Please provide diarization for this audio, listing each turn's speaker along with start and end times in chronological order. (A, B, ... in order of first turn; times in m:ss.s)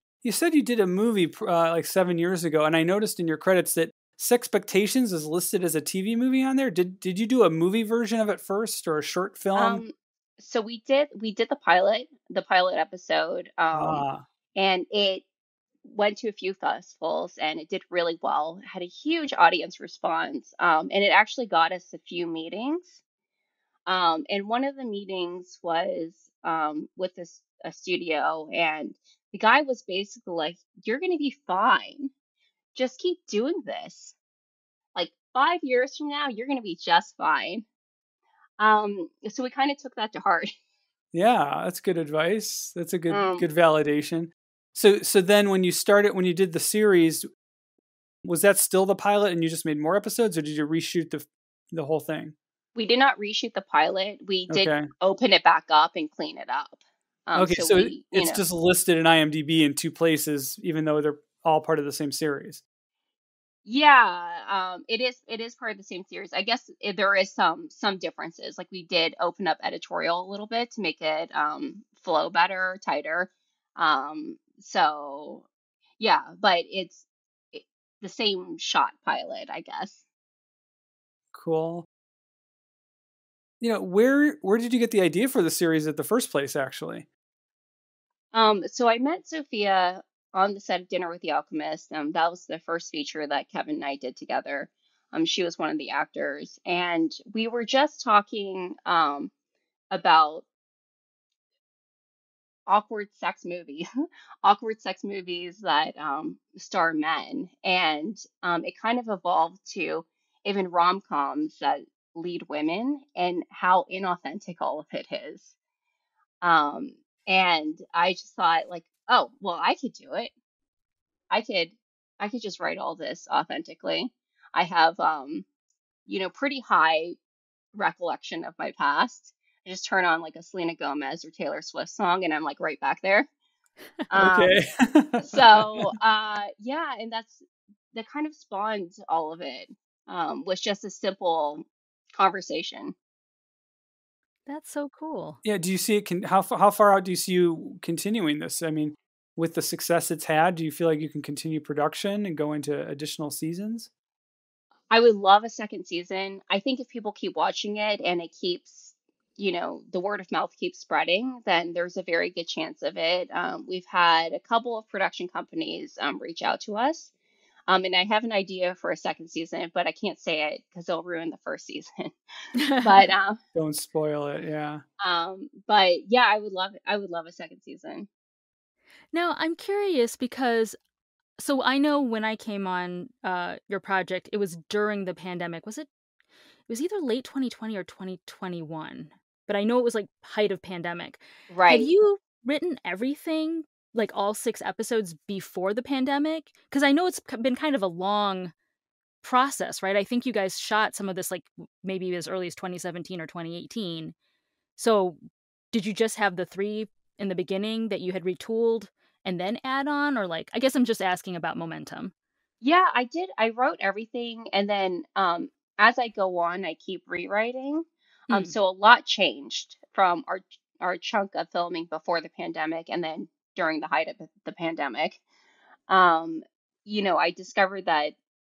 0:00.2-0:09.8 A
0:09.6-0:14.0 B
0:13.7-0:14.2 A
0:14.6-0:15.2 B
0:15.8-0:23.0 B
0:23.9-0:32.1 B
0:32.8-0:34.2 B
0:35.0-0:37.6 B
0:38.6-0:40.5 B
0:41.1-0:47.3 A
0:43.1-0:43.5 B
0:48.2-0:52.4 A
0:52.8-0:58.4 B
0:54.5-0:54.9 A
0:57.4-1:02.6 A
1:03.6-1:15.5 B
1:16.0-1:20.0 B
1:21.3-1:21.9 A
1:23.6-1:27.1 A
1:28.3-1:39.3 B
1:39.9-1:40.5 B
1:42.7-1:43.8 B
1:44.4-1:55.5 B
1:56.4-2:00.3 B
2:01.3-2:05.4 B
2:06.1-2:07.2 B
2:07.7-2:13.3 B
2:14.1-2:14.5 B
2:14.2-2:15.9 A
2:15.2-2:23.0 B
2:24.5-2:25.4 C
2:25.4-2:33.9 A
2:34.9-2:47.1 B
2:47.7-2:52.2 B
2:52.6-2:53.0 C
2:52.8-2:53.4 B
2:53.6-2:54.8 A
2:55.0-2:58.1 B
2:59.1-3:00.8 C
3:01.4-3:05.9 C
3:06.7-3:18.5 C
3:11.5-3:11.9 B
3:19.2-3:24.2 C
3:24.8-3:25.2 C
3:25.7-3:32.1 C
3:32.6-3:45.2 B
3:38.3-3:38.6 C
3:45.9-3:48.2 B